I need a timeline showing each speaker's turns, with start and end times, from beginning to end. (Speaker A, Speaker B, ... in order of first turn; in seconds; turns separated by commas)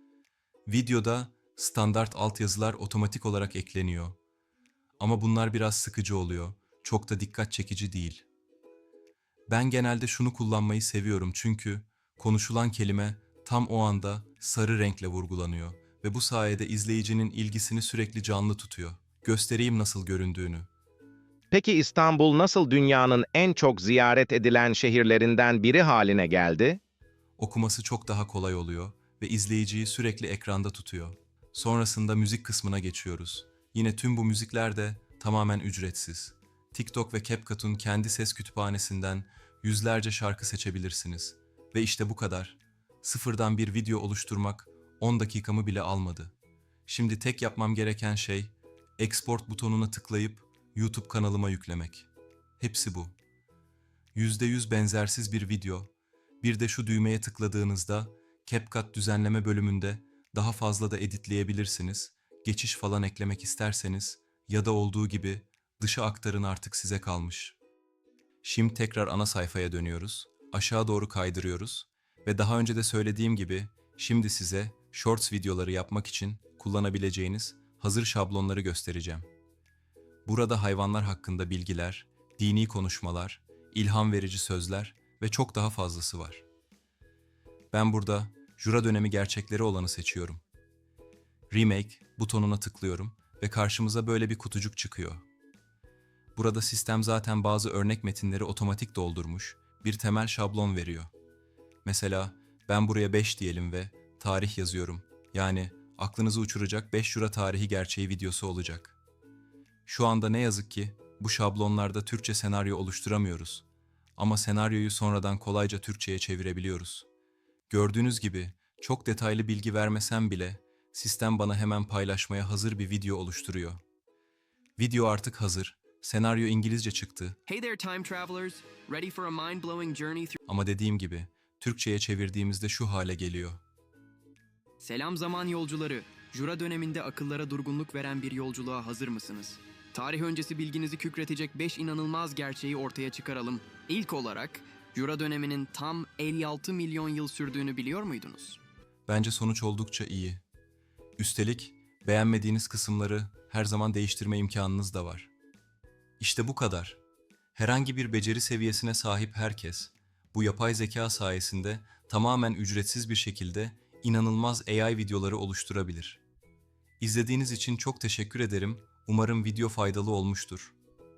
Speaker A: 0.7-4.2, Speaker A: 5.0-8.2, Speaker A: 9.5-20.7, Speaker B: 21.5-26.8, Speaker A: 27.4-46.3, Speaker A: 46.9-52.1, Speaker A: 52.6-53.1, Speaker A: 54.1-67.6, Speaker A: 68.4-79.3, Speaker A: 80.3-86.5, Speaker A: 87.7-90.4, Speaker A: 91.5-95.2, Speaker A: 96.4-101.1, Speaker A: 101.8-109.0, Speaker A: 109.9-113.7, Speaker A: 114.2-117.1, Speaker A: 117.7-123.8, Speaker A: 124.8-127.4, Speaker C: 127.5-130.4, Speaker A: 130.5-133.6, Speaker C: 134.8-148.6, Speaker A: 149.1-150.4, Speaker A: 151.2-155.3, Speaker A: 156.2-157.0, Speaker A: 157.6-166.2, Speaker A: 167.0-170.8